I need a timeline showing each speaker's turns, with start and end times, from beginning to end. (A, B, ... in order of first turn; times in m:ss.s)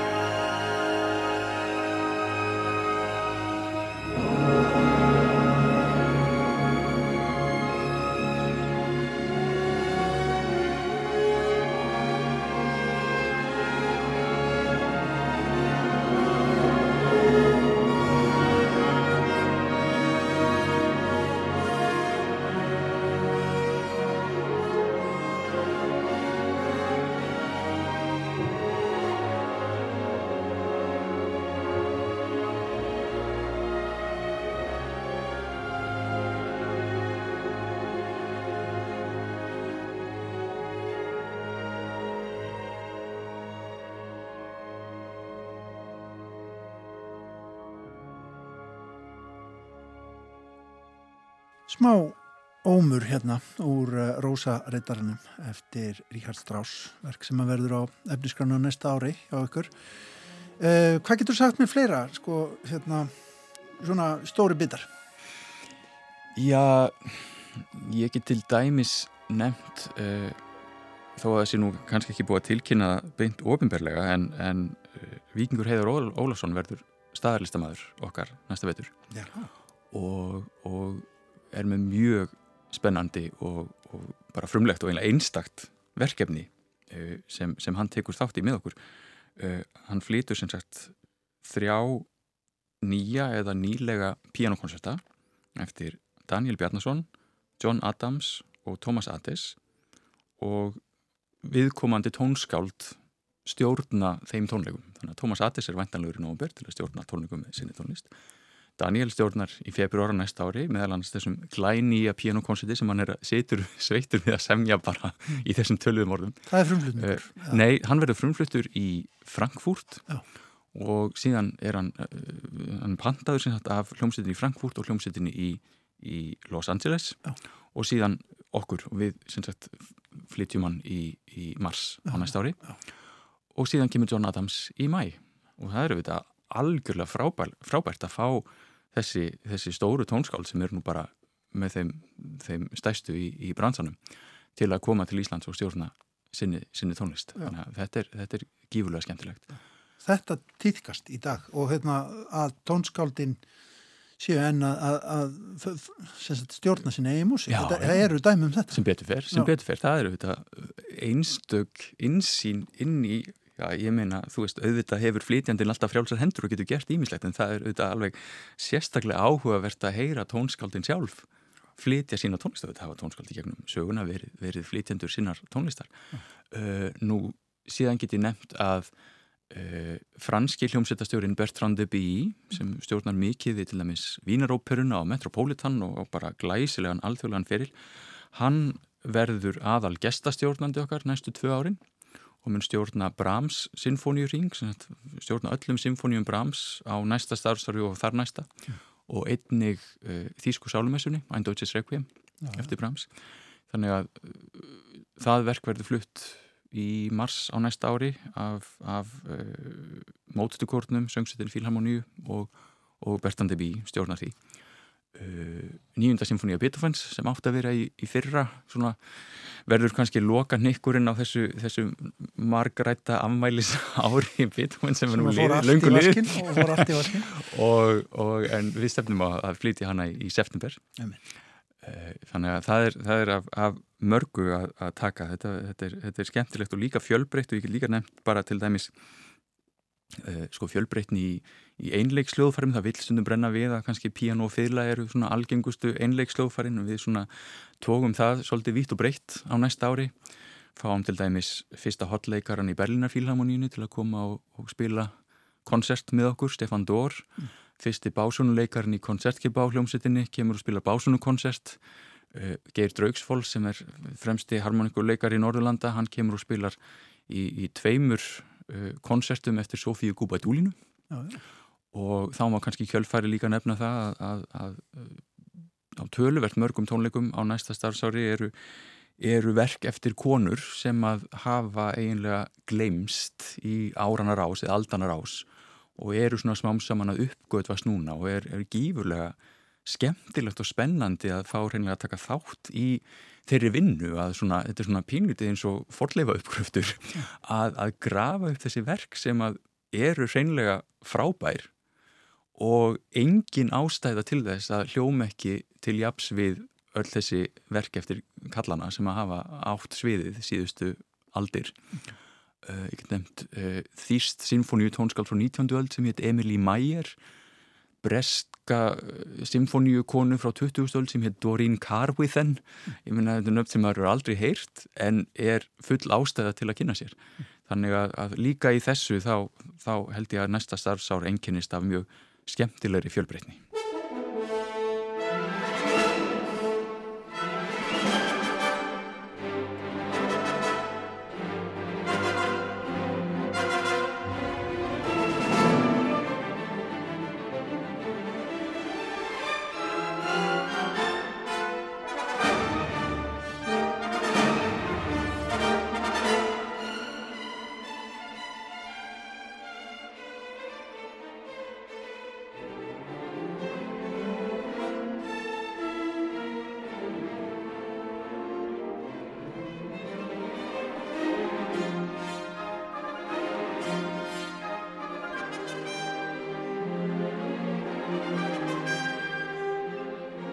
0:51.7-0:59.7 A
1:00.6-1:03.1 A
1:03.8-1:04.9 A
1:06.3-1:10.4 B
1:11.2-1:18.9 B
1:19.1-1:19.5 A
1:19.9-1:28.8 B
1:29.4-1:32.1 B
1:32.8-1:35.0 B
1:35.6-1:39.6 B
1:40.4-1:40.8 B
1:41.4-1:48.1 B
1:48.8-2:00.1 B
1:56.5-1:57.6 A
2:00.7-2:07.2 B
2:07.7-2:12.6 B
2:12.2-2:12.7 A
2:13.5-2:24.0 B
2:24.5-2:29.5 B
2:30.0-2:33.4 A
2:34.2-2:39.5 A
2:37.5-2:38.1 B
2:38.7-2:55.9 B
2:56.5-2:58.9 B
2:59.5-3:07.7 B
3:08.3-3:11.8 B
3:12.4-3:18.5 B
3:19.0-3:34.4 B
3:22.4-3:22.7 A
3:35.1-3:50.8 B
3:45.1-3:47.3 A
3:51.8-3:58.9 B
4:00.2-4:10.2 B
4:10.7-4:15.1 B
4:15.6-4:21.8 B
4:22.3-4:30.8 B
4:31.1-4:31.4 A
4:31.9-4:35.2 B
4:35.9-4:38.5 B
4:39.2-5:01.7 B
5:02.6-5:11.8 B
5:12.6-5:17.2 B
5:18.0-5:33.6 B